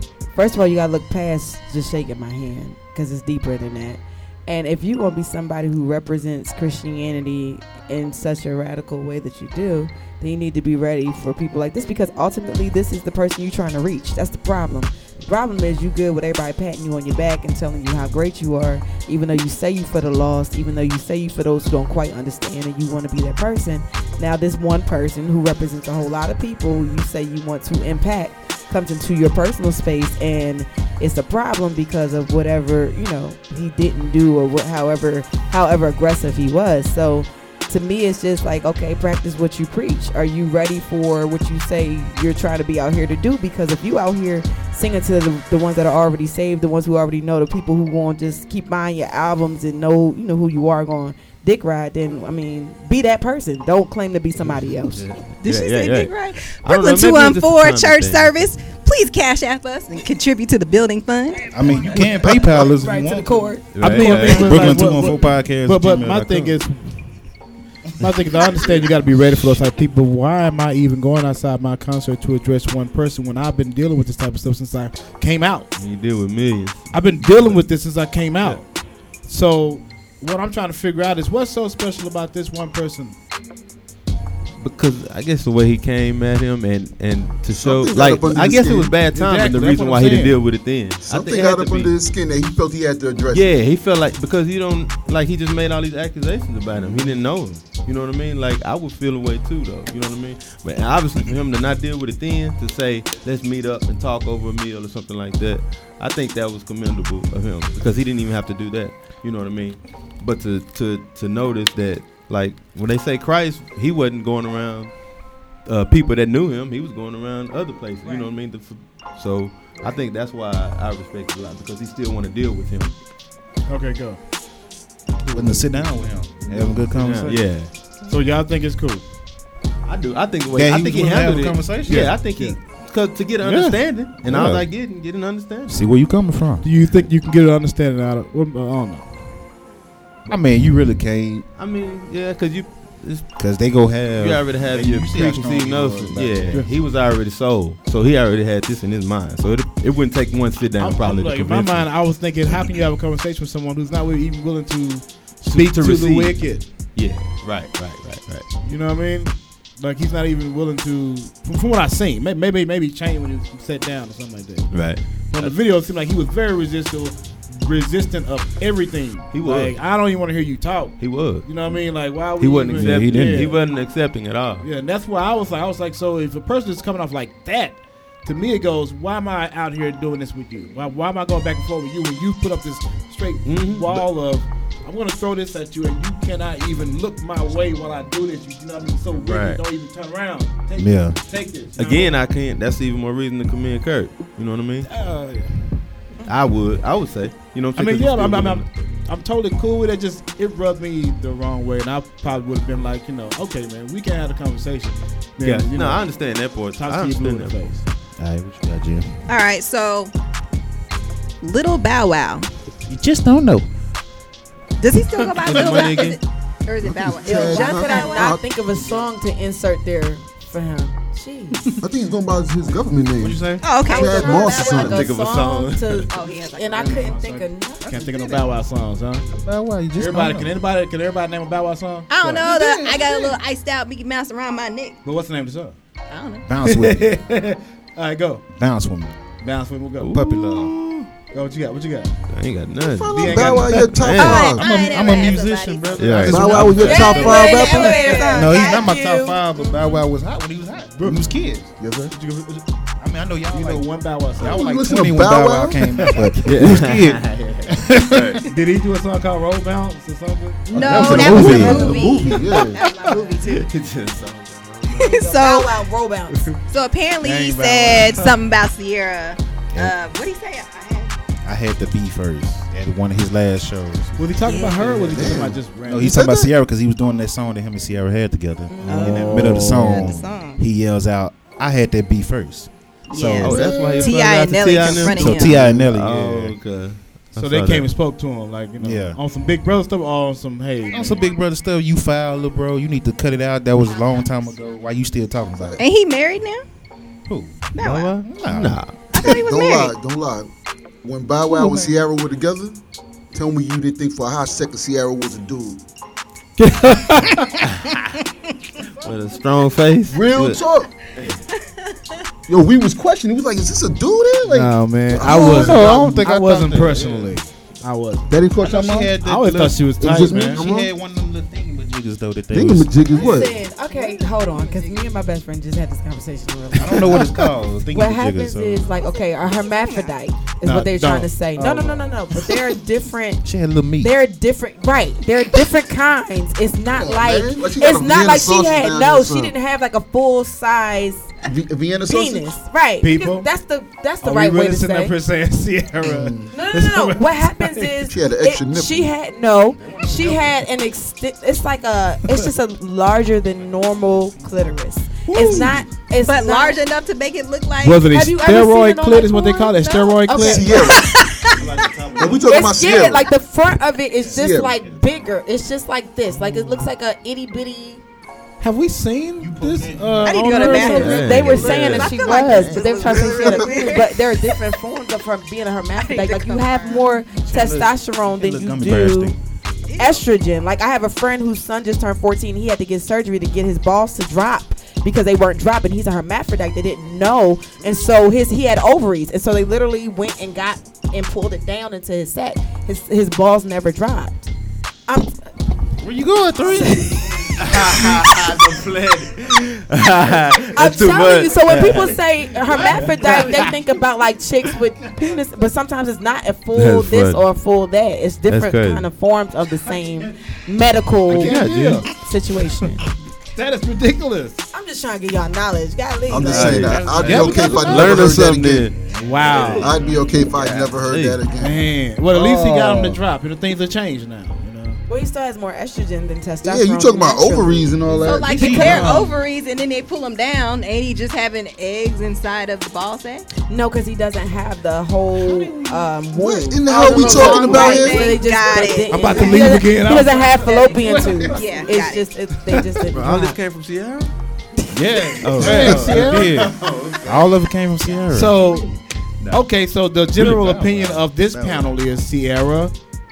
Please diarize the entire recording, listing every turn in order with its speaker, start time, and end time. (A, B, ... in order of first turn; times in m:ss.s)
0:00.3-0:55.0 A
0:54.5-0:58.7 B
0:55.4-1:01.5 C
1:01.5-1:04.2 A
1:01.5-1:06.6 D
1:03.8-1:04.8 B
1:03.8-1:07.1 E
1:08.0-1:15.7 E
1:15.8-1:17.6 B
1:16.9-1:18.7 E
1:19.2-1:23.2 E
1:24.6-1:31.9 B
1:27.6-1:29.0 F
1:29.1-1:30.4 E
1:31.0-1:33.5 F
1:33.3-1:55.0 B
1:36.8-1:37.2 E
1:55.6-2:03.0 B
2:03.7-2:04.2 E
2:05.3-2:07.4 D
2:05.3-2:05.7 E
2:06.5-2:07.4 E
2:06.5-2:07.8 B
2:08.1-2:09.0 E
2:09.8-2:15.8 B
2:10.5-2:12.1 D
2:11.9-2:12.6 E
2:13.4-2:13.7 E
2:13.7-2:14.7 D
2:15.7-2:16.7 D
2:16.6-2:19.2 E
2:20.3-2:21.5 D
2:21.6-2:23.3 B
2:23.4-2:26.7 D
2:24.1-2:31.9 B
2:30.8-2:36.6 E
2:35.5-2:38.5 B
2:38.6-2:44.7 E
2:44.7-2:45.6 B
2:45.3-2:53.6 E
2:49.3-2:49.8 B
2:51.0-2:51.5 B
2:52.4-2:54.7 B
2:52.7-2:53.5 D
2:54.6-3:12.2 E
3:03.4-3:04.1 B
3:09.1-3:09.6 B
3:10.8-3:11.2 D
3:11.8-3:14.9 B
3:14.8-3:15.6 E
3:16.2-3:18.7 B
3:17.8-3:26.1 E
3:25.4-3:27.8 B
3:26.8-3:27.8 E
3:28.2-3:29.3 D
3:29.3-3:30.1 C
3:31.4-3:32.5 C
3:32.9-3:33.7 D
3:34.8-3:38.4 C
3:35.3-3:36.2 B
3:36.8-3:38.4 F
3:37.2-3:41.8 A
3:41.8-3:45.1 F
3:43.2-3:43.6 D
3:43.6-3:45.1 C
3:43.8-3:48.4 A
3:44.8-3:46.1 B
3:46.1-3:47.3 C
3:46.8-3:49.3 E
3:49.3-3:50.6 D
3:50.0-3:52.5 E
3:52.1-3:55.0 C
3:52.4-3:53.3 D
3:55.0-3:55.8 E
3:56.1-3:56.5 C
3:56.4-3:57.2 D
3:56.6-3:58.5 E
3:58.5-3:59.3 D
3:59.4-4:00.2 E
4:00.0-4:00.8 B
4:00.1-4:00.7 D
4:00.9-4:02.1 E
4:02.3-4:04.5 B
4:02.8-4:04.7 F
4:03.1-4:04.0 E
4:04.1-4:09.0 C
4:04.2-4:07.3 D
4:05.9-4:07.5 B
4:06.2-4:08.1 F
4:06.8-4:09.4 A
4:08.3-4:11.7 D
4:11.0-4:11.3 E
4:11.8-4:12.2 F
4:12.1-4:12.6 E
4:13.0-4:18.4 D
4:13.5-4:14.7 E
4:14.4-4:16.3 F
4:16.0-4:16.2 E
4:16.4-4:18.4 B
4:18.4-4:21.4 E
4:20.7-4:23.4 C
4:20.8-4:22.0 D
4:20.8-4:22.8 F
4:21.3-4:23.7 A
4:23.4-4:25.1 B
4:24.9-4:25.8 C
4:25.0-4:26.5 A
4:26.7-4:31.2 C
4:27.2-4:28.3 E
4:31.4-4:34.6 D
4:34.2-4:36.2 E
4:34.4-4:34.9 C
4:34.8-4:35.0 B
4:35.1-4:36.5 F
4:35.1-4:43.6 D
4:38.7-4:39.2 A
4:38.9-4:40.1 E
4:38.9-4:40.6 C
4:43.1-4:45.6 C
4:43.4-4:47.9 B
4:44.9-4:46.6 D
4:47.4-4:51.3 E
4:48.8-4:49.2 D
4:50.9-4:55.8 D
4:55.5-4:55.8 F
4:55.8-4:56.6 C
4:57.3-4:58.8 D
4:57.8-4:58.2 C
4:58.2-4:59.0 B
4:59.1-5:00.0 C
4:59.2-5:00.5 F
5:01.0-5:02.8 F
5:03.3-5:05.8 F
5:06.6-5:07.6 E
5:09.0-5:10.6 B
5:10.1-5:10.9 F
5:11.5-5:12.0 C
5:12.5-5:16.0 F
5:14.4-5:18.3 E
5:15.2-5:17.3 D
5:18.3-5:19.2 F
5:18.6-5:23.0 D
5:19.2-5:20.6 E
5:20.0-5:20.9 F
5:22.5-5:23.6 F
5:23.1-5:27.3 A
5:23.2-5:25.1 C
5:26.8-5:28.9 D
5:27.1-5:27.4 E
5:27.9-5:33.4 A
5:29.0-5:30.2 C
5:30.6-5:32.6 E
5:33.4-5:34.1 D
5:34.0-5:41.3 A
5:36.9-5:39.6 F
5:41.4-5:42.6 F
5:42.1-5:45.2 A
5:43.0-5:43.5 E
5:44.2-5:48.1 E
5:46.0-5:46.4 F
5:46.5-5:56.8 A
5:48.1-5:49.1 F
5:49.8-5:50.6 D
5:54.0-5:54.2 D
5:55.3-5:55.8 E
5:56.2-5:58.1 C
5:57.8-6:00.8 E
5:58.1-6:01.1 A
6:00.4-6:01.1 F
6:00.8-6:01.9 C
6:01.5-6:02.6 D
6:01.6-6:02.3 B
6:02.2-6:03.3 F
6:02.4-6:08.0 A
6:04.1-6:05.2 D
6:04.4-6:04.8 F
6:08.6-6:12.1 E
6:09.4-6:10.8 D
6:10.2-6:14.6 C
6:10.5-6:19.4 A
6:10.9-6:12.1 B
6:12.5-6:13.8 F
6:16.0-6:17.1 C
6:17.5-6:19.4 D
6:19.9-6:20.3 C
6:20.0-6:34.5 A
6:35.1-6:35.5 A
6:36.0-6:37.4 D
6:36.7-6:37.5 A
6:37.6-6:43.3 B
6:40.7-6:53.0 A
6:43.2-6:43.7 E
6:46.7-6:47.4 B
6:48.5-6:49.1 B
6:51.3-6:52.1 B
6:51.3-6:52.1 E
6:53.6-6:54.6 E
6:54.7-6:58.1 A
6:56.3-6:58.9 F
6:56.4-7:01.4 B
6:56.8-6:58.3 D
6:57.1-6:58.3 E
6:59.0-7:00.5 D
6:59.1-7:00.0 E
6:59.5-7:03.2 F
7:01.5-7:05.0 E
7:05.1-7:08.0 A
7:06.6-7:09.1 F
7:08.1-7:09.4 D
7:08.2-7:13.5 C
7:13.7-7:23.6 A
7:15.4-7:16.2 D
7:16.3-7:18.4 F
7:17.0-7:19.6 C
7:19.1-7:20.7 E
7:20.3-7:21.8 D
7:20.7-7:22.3 C
7:22.7-7:23.0 E
7:23.1-7:24.3 B
7:24.9-7:28.7 D
7:25.4-7:27.5 B
7:25.5-7:26.5 E
7:28.3-7:28.9 E
7:29.5-7:32.9 E
7:30.3-7:31.3 D
7:31.5-7:31.9 B